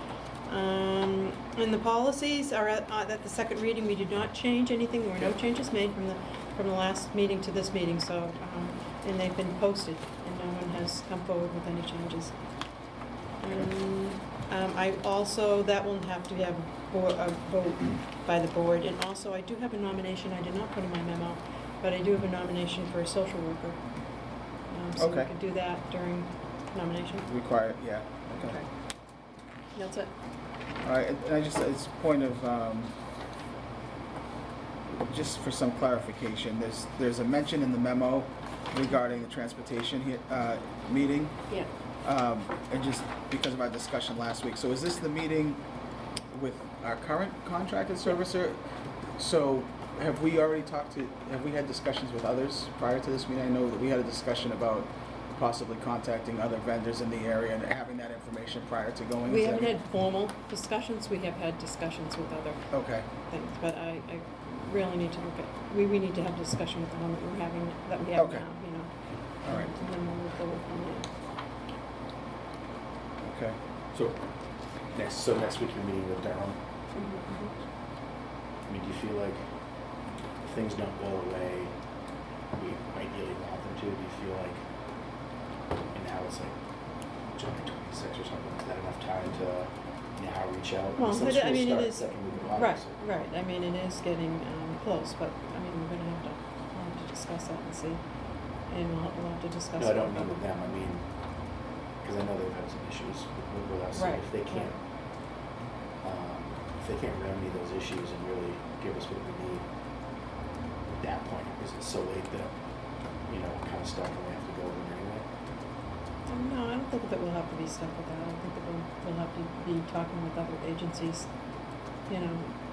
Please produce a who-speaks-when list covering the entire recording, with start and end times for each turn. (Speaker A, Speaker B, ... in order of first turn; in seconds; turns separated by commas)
Speaker A: 0.5-12.3, Speaker A: 13.4-23.8, Speaker A: 24.7-27.3, Speaker B: 25.0-25.3, Speaker B: 27.2-28.6, Speaker A: 28.4-28.7, Speaker A: 29.7-30.1, Speaker B: 30.8-32.9, Speaker B: 34.9-41.4, Speaker B: 42.0-45.6, Speaker B: 46.3-48.6, Speaker B: 49.2-59.8, Speaker A: 59.2-62.6, Speaker B: 62.7-63.1, Speaker A: 63.3-68.9, Speaker B: 68.2-68.4, Speaker B: 69.4-69.7, Speaker A: 69.4-71.1, Speaker B: 73.2-73.6, Speaker C: 73.9-74.2, Speaker C: 74.9-76.6, Speaker A: 77.0-77.5, Speaker C: 78.7-79.4, Speaker C: 80.4-81.7, Speaker C: 82.5-84.6, Speaker C: 85.9-86.5, Speaker C: 87.3-93.0, Speaker A: 91.0-98.0, Speaker A: 98.7-100.4, Speaker C: 99.8-101.1, Speaker C: 102.0-104.8, Speaker A: 103.9-104.7, Speaker C: 106.0-109.6, Speaker C: 110.9-112.5, Speaker C: 113.2-115.2, Speaker A: 116.3-121.3, Speaker A: 122.1-122.5